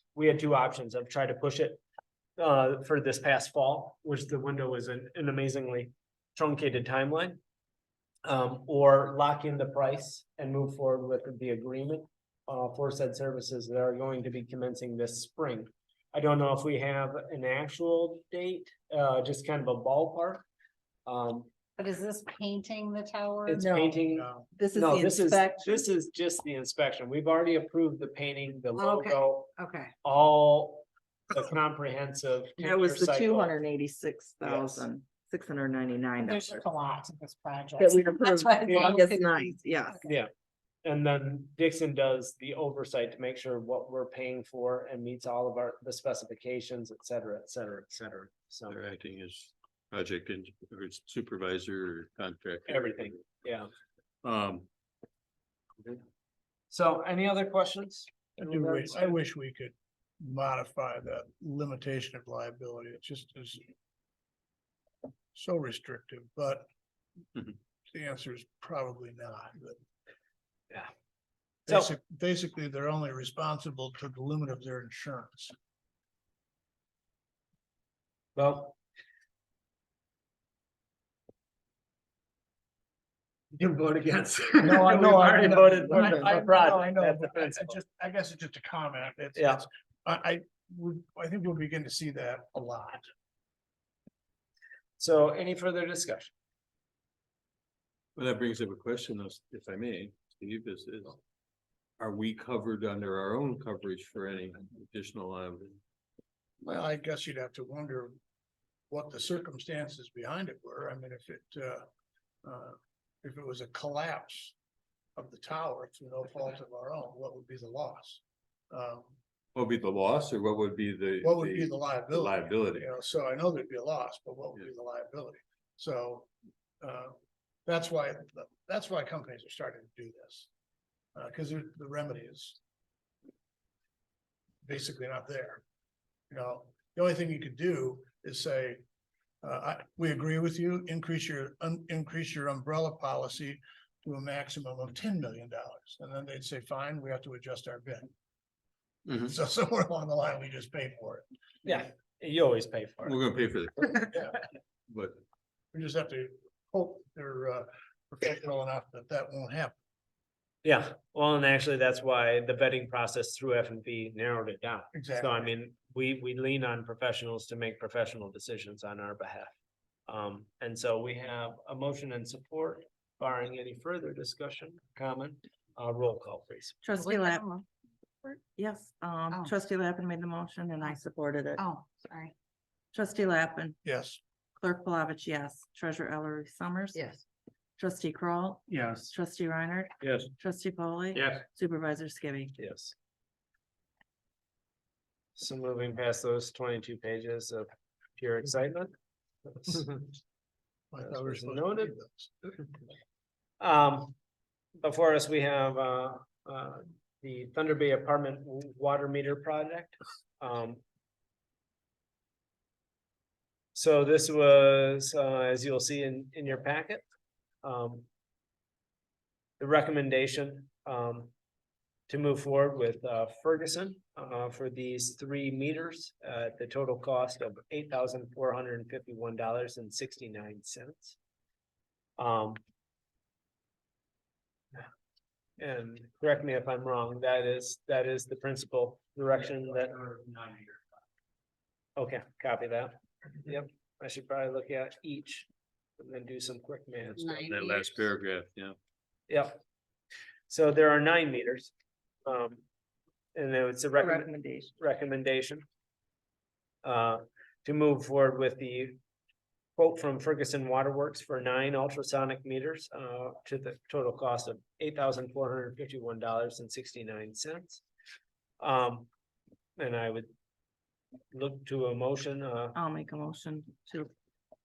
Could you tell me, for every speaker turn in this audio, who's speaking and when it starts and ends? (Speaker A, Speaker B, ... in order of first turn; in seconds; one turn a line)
Speaker A: 0.1-1.8
Speaker A: 2.4-7.4
Speaker A: 8.2-20.4
Speaker A: 21.1-21.5
Speaker B: 21.8-24.0
Speaker A: 23.4-29.5
Speaker C: 23.6-23.9
Speaker D: 24.1-24.5
Speaker B: 24.6-25.6
Speaker B: 28.8-29.9
Speaker A: 30.0-33.5
Speaker C: 32.6-36.7
Speaker A: 34.4-34.9
Speaker B: 36.2-40.0
Speaker C: 37.8-40.1
Speaker A: 40.0-40.3
Speaker A: 40.8-48.8
Speaker E: 48.7-53.2
Speaker A: 52.7-53.7
Speaker E: 54.2-54.7
Speaker A: 56.7-59.1
Speaker D: 58.4-63.6
Speaker D: 65.3-66.7
Speaker D: 67.9-69.8
Speaker D: 71.7-75.5
Speaker A: 78.3-78.8
Speaker A: 83.5-87.8
Speaker D: 84.6-93.0
Speaker A: 89.3-89.6
Speaker A: 95.0-96.3
Speaker E: 98.2-101.2
Speaker E: 102.0-105.8
Speaker D: 106.6-108.1
Speaker D: 108.9-111.8
Speaker D: 112.4-114.5
Speaker D: 115.2-119.1
Speaker E: 119.5-122.9
Speaker D: 121.2-126.3
Speaker D: 126.8-127.1
Speaker D: 127.7-130.5
Speaker D: 131.1-132.6
Speaker D: 134.6-135.6
Speaker D: 136.3-138.8
Speaker D: 139.4-148.1
Speaker D: 149.1-151.2
Speaker A: 151.6-153.2
Speaker E: 153.1-154.1
Speaker E: 154.9-155.2
Speaker D: 155.7-159.8
Speaker A: 160.6-169.5
Speaker D: 164.9-165.5
Speaker A: 170.1-176.8
Speaker C: 176.8-177.6
Speaker B: 177.0-177.6
Speaker C: 178.6-181.6
Speaker B: 181.6-182.3
Speaker C: 182.9-183.8
Speaker D: 183.8-184.2
Speaker C: 184.6-187.0
Speaker B: 186.9-187.2
Speaker C: 187.8-192.5
Speaker A: 192.6-192.9
Speaker A: 195.3-198.9
Speaker A: 199.5-200.1
Speaker D: 200.9-202.3
Speaker A: 201.0-201.9
Speaker A: 203.6-204.1
Speaker A: 204.8-210.8
Speaker A: 213.7-217.0
Speaker A: 217.6-218.0
Speaker A: 219.6-221.3
Speaker A: 222.1-231.2
Speaker A: 232.2-232.6
Speaker A: 235.6-240.1
Speaker A: 241.9-245.5
Speaker A: 246.0-247.3
Speaker B: 247.2-248.0
Speaker E: 247.4-248.8
Speaker A: 249.3-249.6
Speaker A: 250.5-251.7
Speaker A: 252.2-252.6
Speaker A: 253.3-255.6
Speaker C: 254.0-254.7
Speaker A: 256.8-259.0
Speaker A: 259.8-267.8
Speaker A: 268.6-269.1
Speaker A: 269.8-270.3
Speaker A: 271.3-272.8
Speaker C: 272.7-274.1